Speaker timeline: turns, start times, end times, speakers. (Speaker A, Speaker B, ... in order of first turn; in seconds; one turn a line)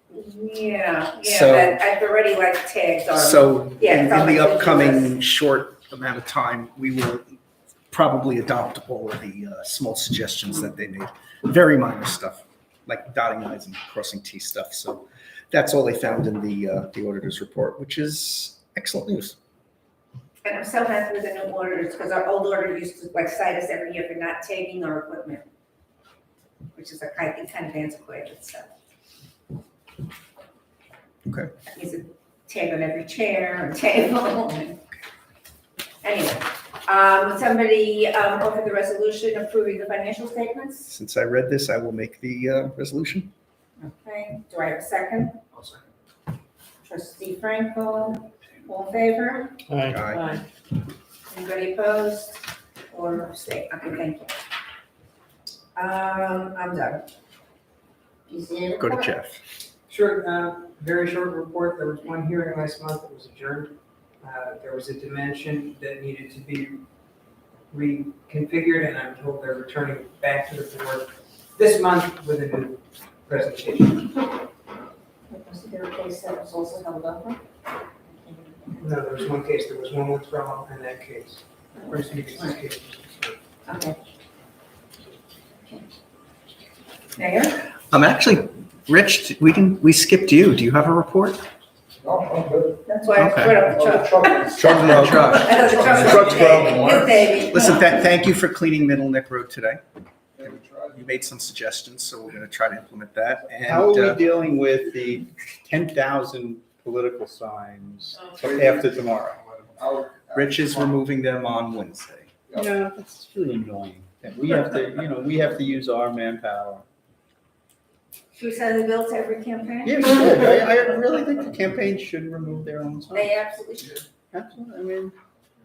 Speaker A: 0.1-5.1
Speaker B: 1.2-1.8
Speaker B: 3.1-7.4
Speaker B: 7.9-19.4
Speaker A: 20.4-25.4
Speaker A: 26.8-28.7
Speaker A: 31.7-34.8
Speaker A: 36.0-40.9
Speaker B: 40.9-43.3
Speaker A: 43.8-45.4
Speaker A: 46.8-49.6
Speaker B: 49.8-50.4
Speaker C: 50.1-50.4
Speaker A: 51.3-54.3
Speaker A: 55.8-57.0
Speaker A: 58.3-58.9
Speaker B: 58.8-59.4
Speaker C: 59.9-66.8
Speaker C: 67.7-74.1
Speaker A: 75.3-77.4
Speaker A: 78.1-78.8
Speaker C: 78.8-83.4
Speaker A: 81.8-82.6
Speaker A: 83.7-84.0
Speaker A: 87.2-87.6
Speaker B: 87.9-91.5
Speaker D: 92.0-92.8
Speaker A: 92.9-97.9
Speaker B: 93.2-93.7
Speaker D: 93.6-97.1
Speaker B: 94.6-99.8
Speaker E: 96.3-96.8
Speaker D: 100.4-101.0
Speaker B: 100.4-104.3
Speaker E: 103.7-109.4
Speaker D: 108.4-111.0
Speaker B: 110.3-112.3
Speaker E: 112.6-116.8
Speaker A: 118.3-120.5
Speaker E: 119.8-123.4
Speaker A: 123.1-124.0
Speaker E: 124.3-125.2